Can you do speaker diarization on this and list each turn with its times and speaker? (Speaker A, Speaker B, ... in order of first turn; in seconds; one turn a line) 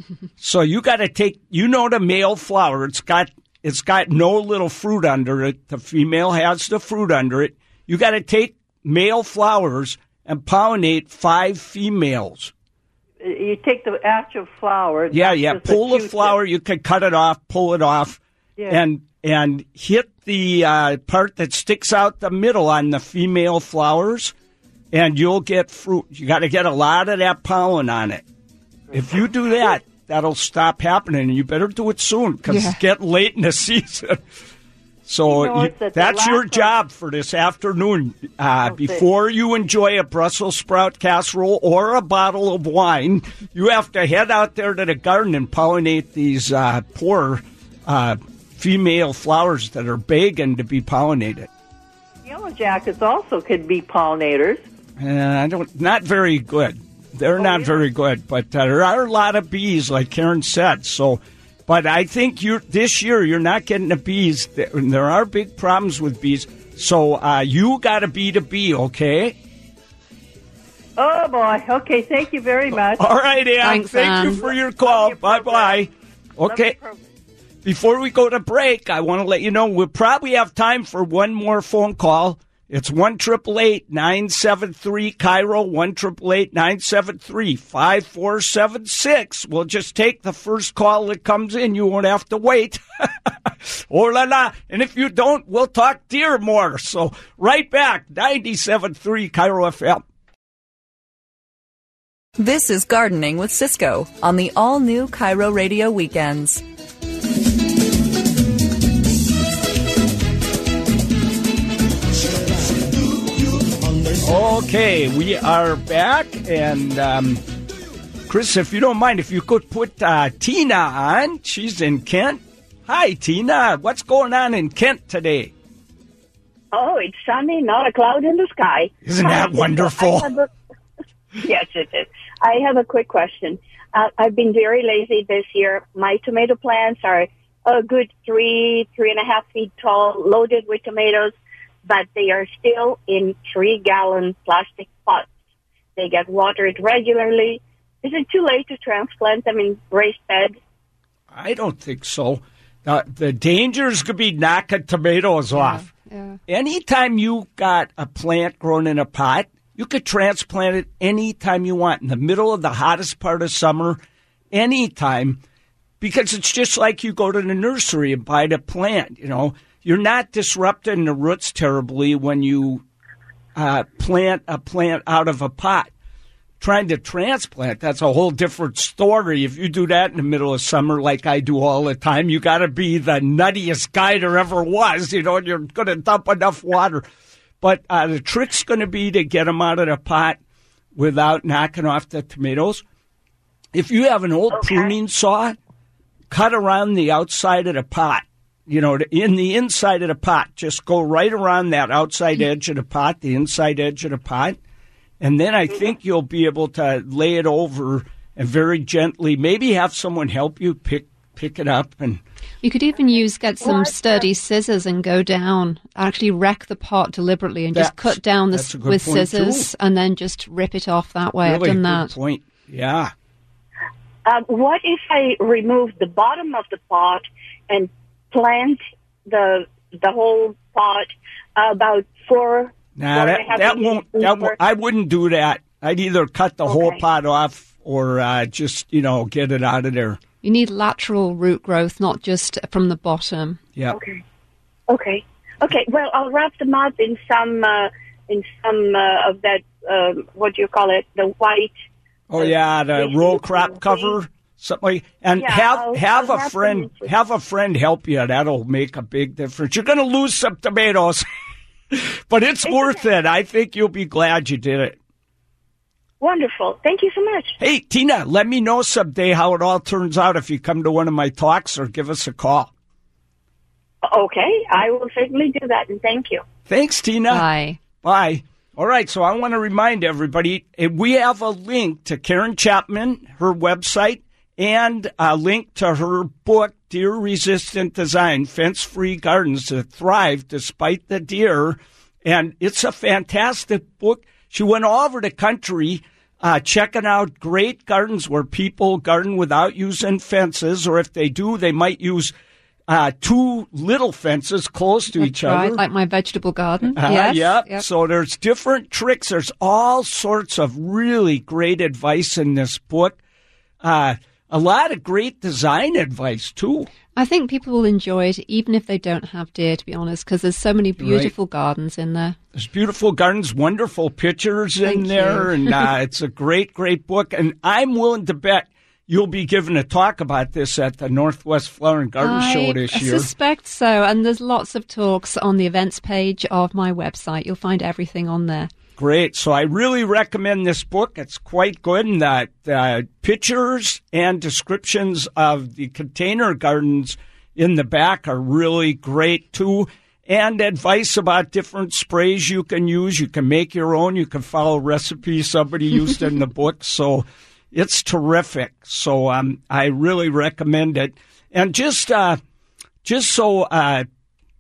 Speaker A: 0.4-12.5
Speaker B: 13.2-16.4
Speaker A: 15.1-24.3
Speaker A: 24.9-28.2
Speaker A: 28.9-34.2
Speaker C: 32.5-32.8
Speaker A: 35.1-51.5
Speaker B: 35.3-36.7
Speaker B: 38.6-39.0
Speaker B: 52.2-54.6
Speaker A: 55.0-69.4
Speaker B: 57.4-57.8
Speaker B: 71.0-73.1
Speaker A: 72.7-76.8
Speaker C: 73.6-74.5
Speaker B: 74.5-75.9
Speaker B: 76.4-77.0
Speaker A: 77.6-100.0
Speaker D: 102.4-106.6
Speaker A: 114.2-117.4
Speaker A: 118.3-125.5
Speaker E: 126.7-130.5
Speaker A: 129.1-130.3
Speaker E: 131.4-141.3
Speaker E: 141.9-145.3
Speaker E: 146.0-150.6
Speaker A: 151.3-155.8
Speaker C: 155.6-156.4
Speaker A: 156.5-164.0
Speaker A: 164.5-165.4
Speaker A: 166.0-172.8
Speaker A: 173.6-175.9
Speaker A: 176.6-187.0
Speaker A: 187.6-190.4
Speaker A: 190.9-192.8
Speaker A: 193.7-195.6
Speaker E: 194.5-194.9
Speaker A: 196.3-204.6
Speaker A: 205.2-212.2
Speaker C: 212.6-222.1
Speaker E: 213.6-214.3
Speaker A: 217.7-219.7
Speaker A: 221.4-223.1
Speaker E: 224.2-234.6
Speaker A: 233.0-240.2
Speaker E: 236.7-237.0
Speaker C: 240.4-243.6
Speaker E: 243.9-244.2
Speaker E: 244.9-251.7
Speaker A: 252.3-261.2
Speaker E: 252.4-254.2
Speaker E: 255.4-257.1
Speaker A: 261.9-265.0
Speaker E: 262.6-263.1
Speaker E: 266.2-267.6
Speaker A: 267.6-272.7
Speaker E: 274.1-276.4
Speaker A: 276.7-277.5
Speaker C: 277.3-277.8
Speaker A: 278.0-302.3
Speaker A: 302.9-305.8
Speaker C: 305.1-307.9
Speaker A: 307.0-313.2
Speaker A: 313.8-316.9
Speaker C: 317.1-322.4
Speaker A: 321.0-321.3
Speaker A: 322.6-333.3
Speaker C: 324.8-325.9
Speaker C: 332.2-338.7
Speaker A: 339.0-362.4
Speaker A: 363.1-364.1